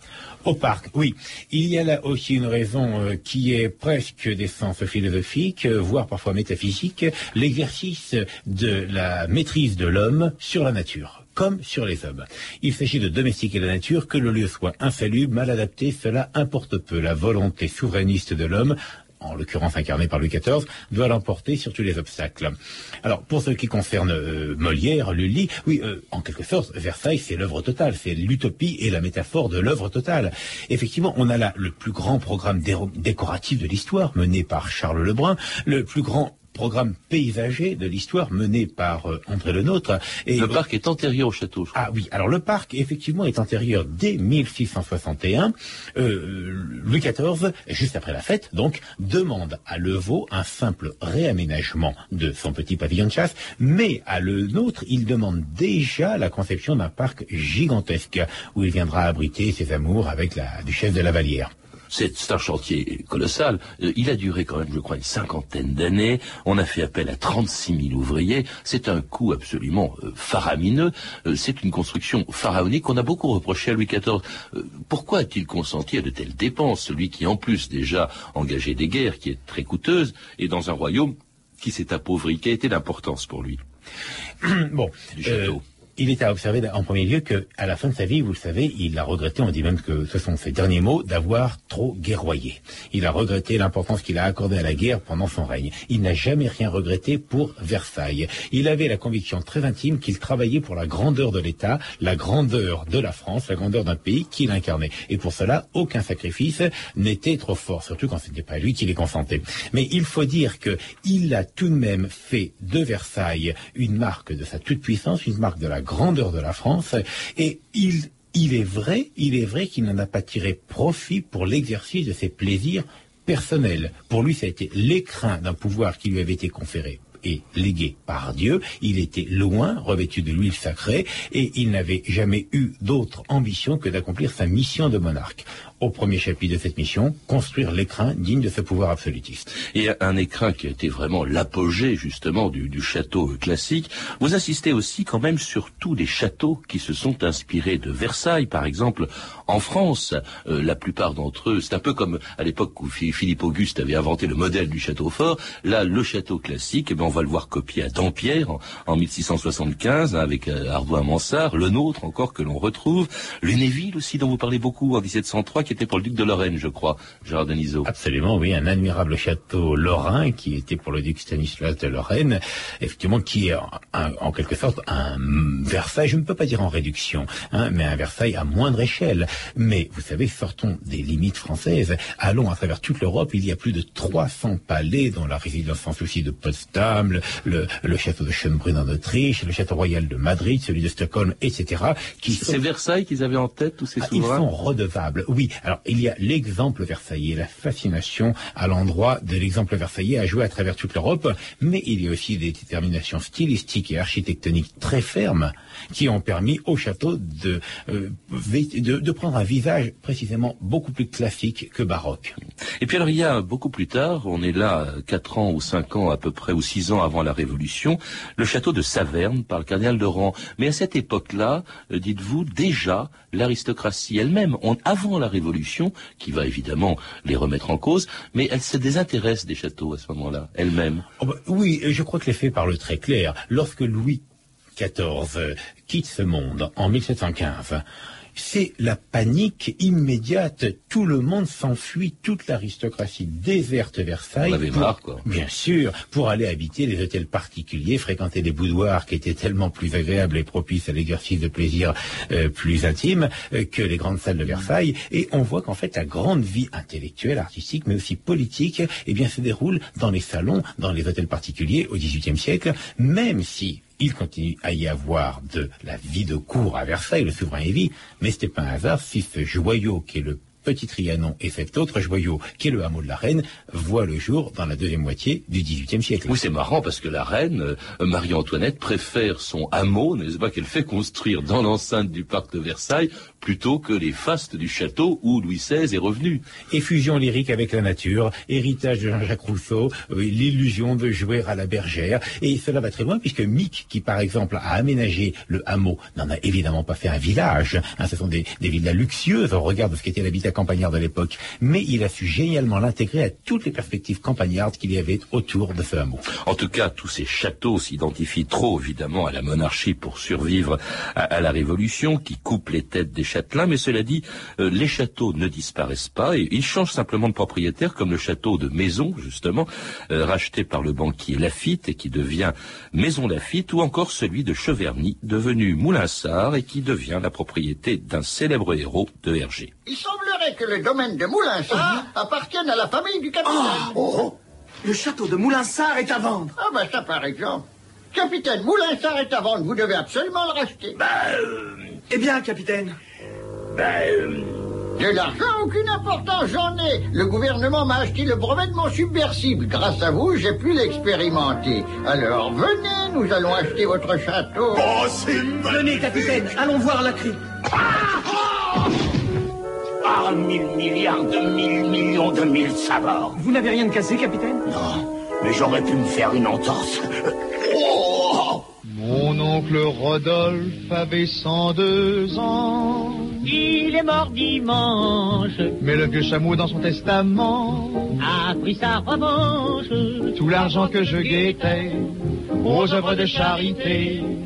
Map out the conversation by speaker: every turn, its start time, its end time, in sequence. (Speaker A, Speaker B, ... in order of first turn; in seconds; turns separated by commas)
Speaker A: 0.4-40.6, Speaker B: 40.4-41.8, Speaker A: 41.8-61.5, Speaker B: 61.9-83.6, Speaker A: 84.4-139.5, Speaker B: 85.2-85.6, Speaker B: 139.6-167.9, Speaker A: 167.8-192.6, Speaker B: 192.3-194.4, Speaker A: 194.0-212.4, Speaker B: 212.8-231.1, Speaker A: 231.2-234.2, Speaker A: 234.8-237.8, Speaker A: 238.3-276.4, Speaker B: 244.4-245.2, Speaker B: 276.3-286.4, Speaker A: 286.7-306.2, Speaker B: 306.4-329.7, Speaker C: 329.9-333.9, Speaker D: 331.7-332.0, Speaker D: 333.4-334.3, Speaker D: 334.8-336.5, Speaker C: 336.6-341.0, Speaker E: 341.0-341.8, Speaker D: 342.1-343.0, Speaker E: 343.7-344.7, Speaker C: 345.0-354.8, Speaker E: 354.7-356.6, Speaker D: 355.6-357.4, Speaker E: 357.8-358.7, Speaker E: 360.0-363.4, Speaker D: 363.4-364.6, Speaker E: 364.7-368.6, Speaker F: 368.9-373.4, Speaker G: 373.4-375.7, Speaker F: 375.8-378.2, Speaker G: 378.2-381.5, Speaker F: 380.4-382.0, Speaker F: 382.6-384.3, Speaker G: 383.0-383.7